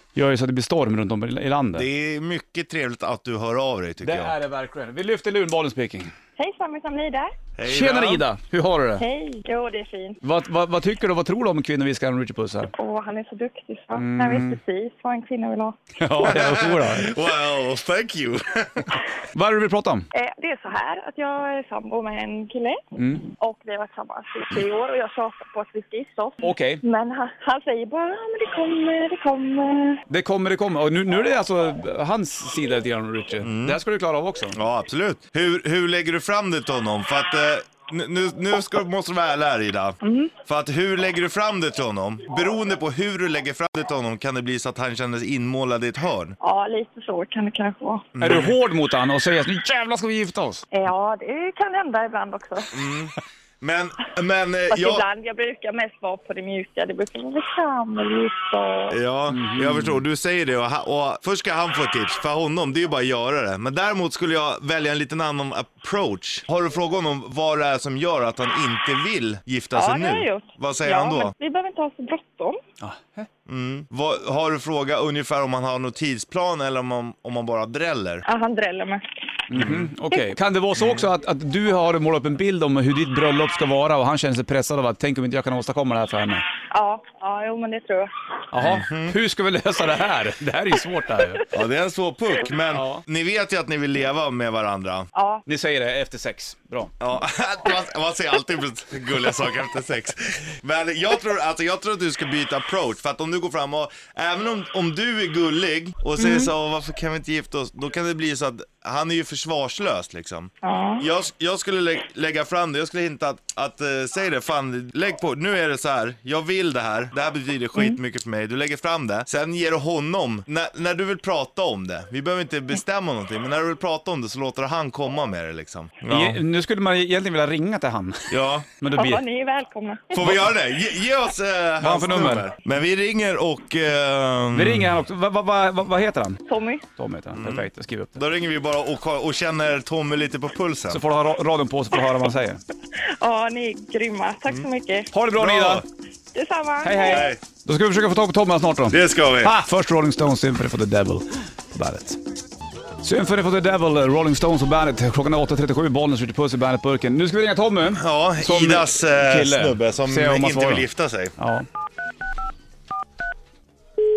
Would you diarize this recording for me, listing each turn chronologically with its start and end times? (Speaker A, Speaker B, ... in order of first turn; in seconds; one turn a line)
Speaker A: 0.1-1.9
Speaker B: 1.7-4.3
Speaker A: 4.0-6.1
Speaker C: 6.4-7.3
Speaker B: 7.6-8.2
Speaker A: 7.7-9.0
Speaker C: 9.0-10.2
Speaker A: 10.2-12.7
Speaker C: 12.7-15.8
Speaker A: 13.9-14.6
Speaker A: 16.0-17.1
Speaker B: 16.2-18.9
Speaker A: 19.3-20.1
Speaker C: 20.1-30.0
Speaker A: 23.0-23.3
Speaker A: 26.4-26.8
Speaker A: 30.1-34.5
Speaker B: 33.4-33.8
Speaker B: 34.5-46.4
Speaker C: 40.0-40.3
Speaker C: 46.4-48.1
Speaker B: 48.1-48.5
Speaker A: 48.2-50.6
Speaker C: 50.7-52.8
Speaker B: 52.7-55.0
Speaker C: 54.7-59.0
Speaker B: 58.9-71.3
Speaker A: 59.3-60.0
Speaker C: 69.7-72.6
Speaker A: 72.8-73.3
Speaker B: 73.5-78.2
Speaker C: 78.2-79.0
Speaker A: 79.5-86.4
Speaker B: 79.5-79.9
Speaker B: 80.8-81.0
Speaker C: 86.7-88.1
Speaker A: 88.5-91.4
Speaker B: 88.6-89.2
Speaker B: 91.5-95.1
Speaker A: 92.7-93.0
Speaker C: 95.1-95.4
Speaker A: 95.5-96.9
Speaker B: 97.0-126.4
Speaker C: 106.2-106.5
Speaker C: 110.6-111.0
Speaker A: 126.1-129.2
Speaker B: 128.3-128.7
Speaker C: 128.9-130.3
Speaker B: 130.1-135.0
Speaker A: 130.2-130.4
Speaker A: 131.8-132.5
Speaker A: 134.5-136.4
Speaker C: 136.4-136.8
Speaker A: 136.9-138.2
Speaker B: 137.3-141.0
Speaker A: 140.9-142.6
Speaker C: 143.2-145.1
Speaker A: 145.1-145.8
Speaker B: 145.3-145.8
Speaker C: 146.3-147.3
Speaker A: 146.8-152.2
Speaker B: 147.0-147.4
Speaker B: 148.9-149.5
Speaker A: 153.0-160.9
Speaker B: 157.9-161.3
Speaker A: 161.4-161.7